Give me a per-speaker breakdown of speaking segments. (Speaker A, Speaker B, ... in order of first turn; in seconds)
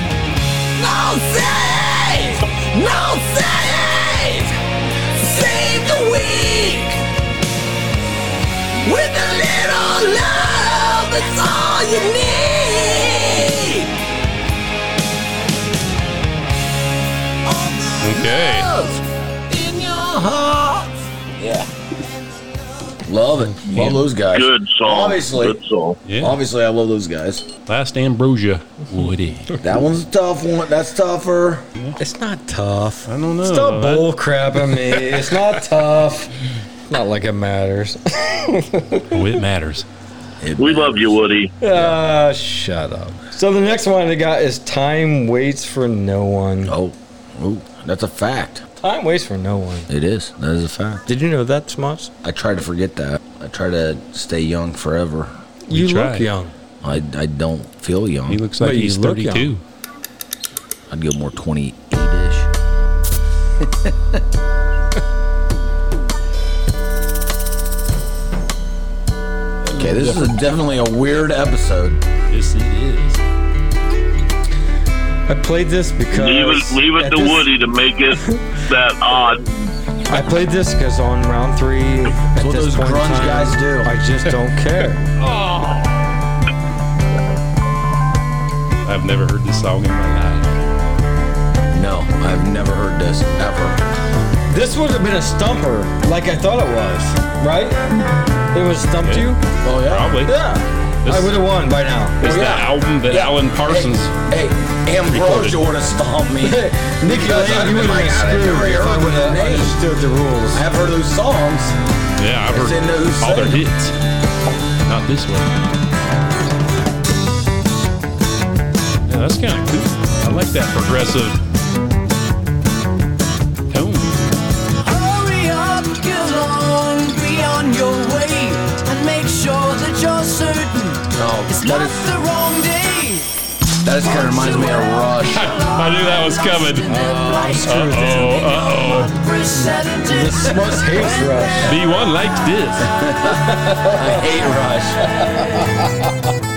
Speaker A: 0.8-4.6, 5.2-7.0, 8.8-13.9, 18.0-21.7, 23.1-25.6, 26.2-27.5, 29.6-31.6, 40.4-41.2, 46.6-48.6, 49.9-51.0, 52.2-55.3, 56.8-58.4, 60.9-62.5, 63.6-64.2, 69.7-72.0, 82.4-83.9, 91.7-93.8, 99.6-100.2, 102.2-109.8, 110.5-111.8, 112.5-113.6, 131.1-132.0, 133.8-135.6, 142.8-145.0
Speaker B: 18.0-18.7, 23.6-24.0, 26.1-26.4, 27.6-29.6, 33.1-34.1, 34.6-35.5, 39.1-39.9, 55.7-56.3, 58.3-59.6, 69.7-70.3, 72.3-73.2, 85.2-86.0, 88.8-90.5, 99.0-100.4, 101.0-101.3, 102.2-104.1, 105.1-105.6, 112.2-113.9, 114.8-115.5, 119.1-121.4, 123.7-124.1, 135.3-136.9, 137.6-139.1, 141.6-142.9
Speaker C: 24.3-26.0, 40.6-41.5, 76.1-79.7
Speaker D: 32.0-36.3, 36.9-39.4, 41.6-46.8, 48.8-49.9, 51.1-52.1, 55.7-56.5, 58.6-59.5, 75.3-77.5, 80.1-85.0, 94.5-97.8, 98.5-99.4, 100.2-102.2, 106.4-110.7, 136.9-138.4, 140.0-141.8, 143.2-144.3, 145.0-146.1
Speaker E: 124.8-133.3, 134.0-143.1